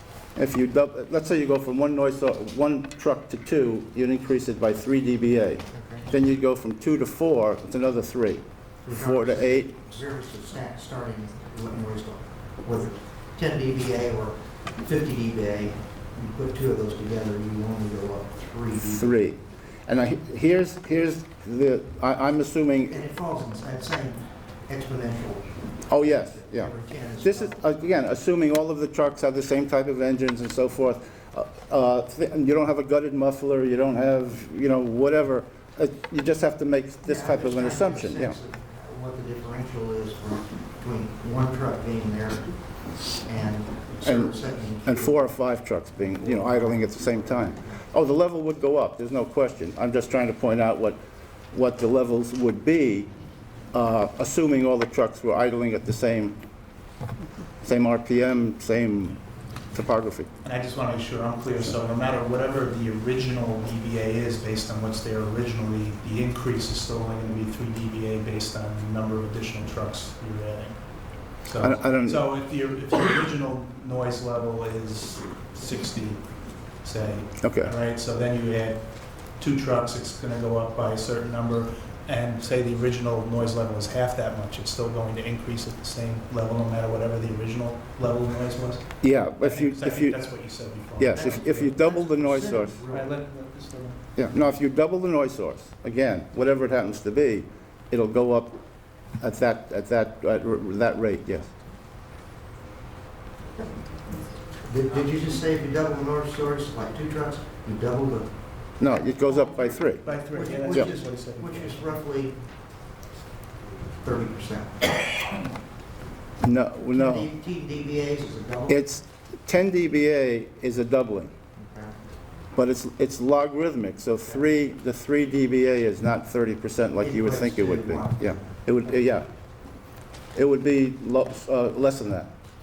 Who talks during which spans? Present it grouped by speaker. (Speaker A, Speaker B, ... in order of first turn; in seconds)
Speaker A: 0.3-9.8, 18.8-23.0, 25.9-38.4, 44.0-51.0, 51.5-53.1, 53.7-56.4, 57.6-59.2, 59.7-60.3, 71.6-72.2, 77.4-77.7, 89.0-90.2, 91.0-92.8, 94.2-98.6, 99.2-101.5, 108.8-110.0, 116.4-117.3, 118.7-121.3, 122.5-129.3, 130.3-132.3
Speaker B: 5.7-6.0, 8.8-19.1, 22.9-27.7, 37.0-45.3, 46.1-47.9, 91.1-93.2, 104.6-108.3, 110.3-112.4, 114.0-114.9, 116.9-118.8, 121.6-122.0, 127.0-128.8
Speaker C: 60.4-91.8, 92.9-94.0, 110.0-111.9